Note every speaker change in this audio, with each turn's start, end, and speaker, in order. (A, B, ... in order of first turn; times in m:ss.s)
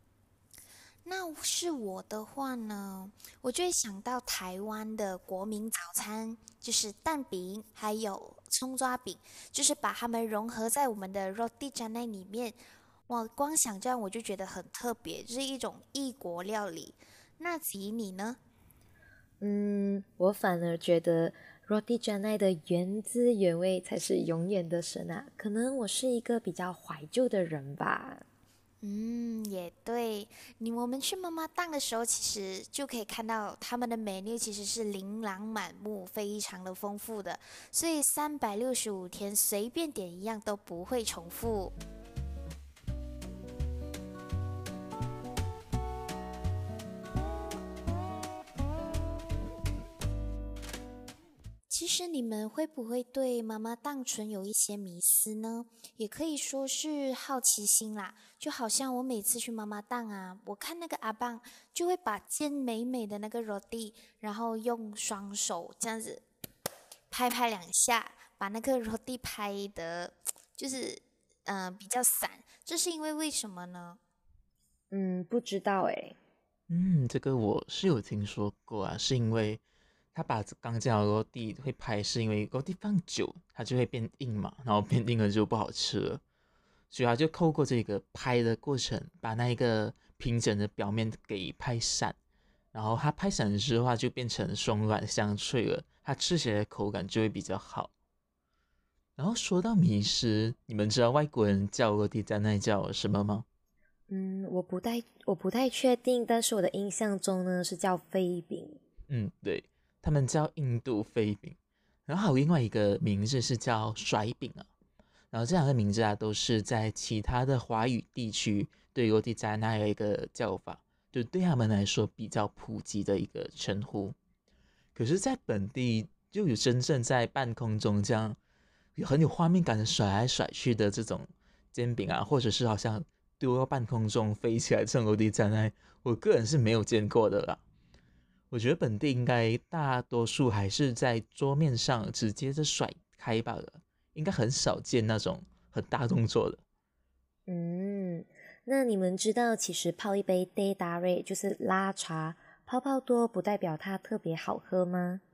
0:01.0-0:18.4 A
0:19.4-0:28.2 B
0:28.8-0:41.7 A
0:51.7-1:06.2 A
1:07.1-1:14.0 A
1:14.9-1:16.2 B
1:16.7-1:19.6 C
1:20.1-1:26.2 C
1:26.9-1:32.2 C
1:32.7-1:37.9 C
1:39.2-1:43.4 C
1:44.1-1:48.8 B
1:49.1-1:51.6 C
1:52.1-1:54.7 C
1:55.3-2:04.1 C
2:05.0-2:08.4 C
2:09.0-2:17.6 C
2:18.5-2:26.6 C
2:27.5-2:35.2 B